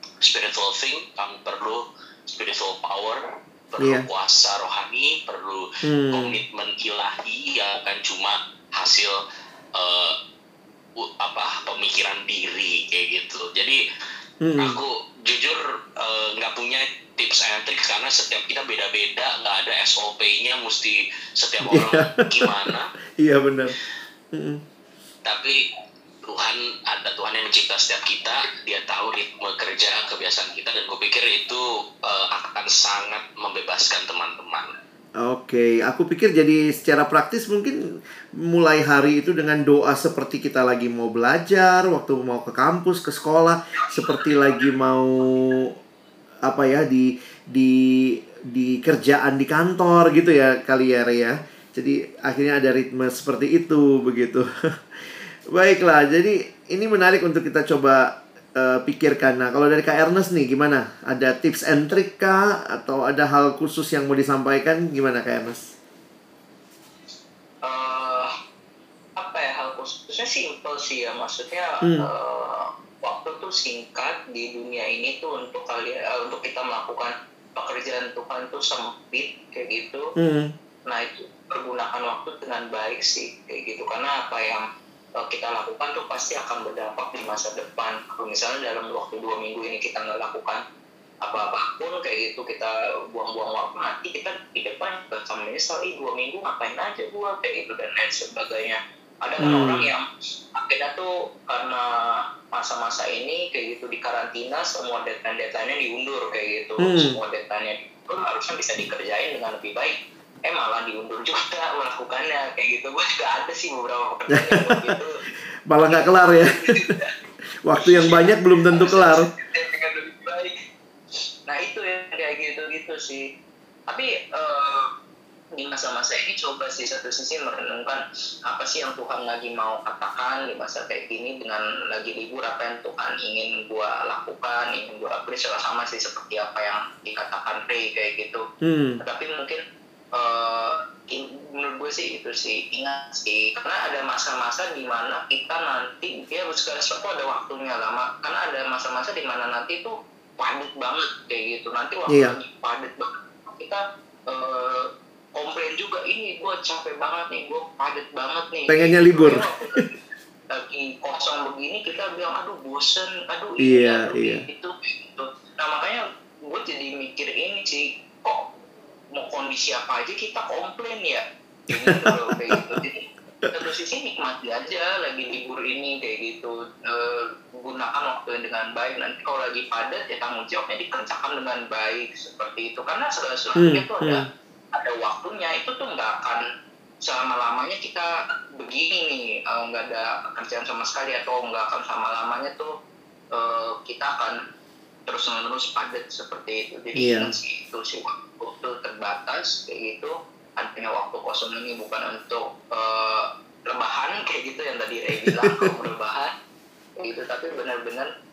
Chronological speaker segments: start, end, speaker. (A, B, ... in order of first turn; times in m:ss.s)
0:00.2-0:09.2 A
0:03.8-0:04.0 B
0:05.8-0:06.4 B
0:09.7-0:10.2 A
0:11.0-0:13.8 A
0:14.4-0:14.8 B
0:14.6-0:22.9 A
0:21.6-0:23.8 B
0:24.3-0:24.6 B
0:25.2-0:25.6 A
0:26.3-0:34.7 A
0:35.2-0:37.8 B
0:38.4-0:45.7 B
0:46.4-0:54.5 B
0:55.0-1:05.7 B
1:07.6-1:08.3 C
1:09.2-1:20.1 C
1:11.8-1:12.1 B
1:20.2-1:20.5 B
1:20.9-1:24.6 C
1:25.2-1:30.6 C
1:31.2-1:55.2 C
1:39.4-1:39.9 B
1:46.8-1:47.2 B
1:54.3-1:55.0 B
1:55.7-1:57.0 B
1:55.9-1:57.1 C
1:57.6-1:59.3 B
1:57.8-2:00.6 C
2:01.5-2:03.3 C
2:03.9-2:04.9 C
2:05.5-2:18.4 C
2:18.6-2:19.0 B
2:19.0-2:19.6 C
2:20.1-2:40.0 C
2:32.1-2:32.3 B
2:38.7-2:39.8 B
2:40.5-2:48.4 C
2:43.6-2:44.4 B
2:49.1-3:06.5 C
2:51.9-2:52.8 B
3:03.6-3:04.2 B
3:07.0-3:12.7 C
3:13.3-3:14.4 C
3:15.1-3:26.3 C
3:17.0-3:17.3 B
3:25.2-3:25.7 B
3:27.0-3:28.1 C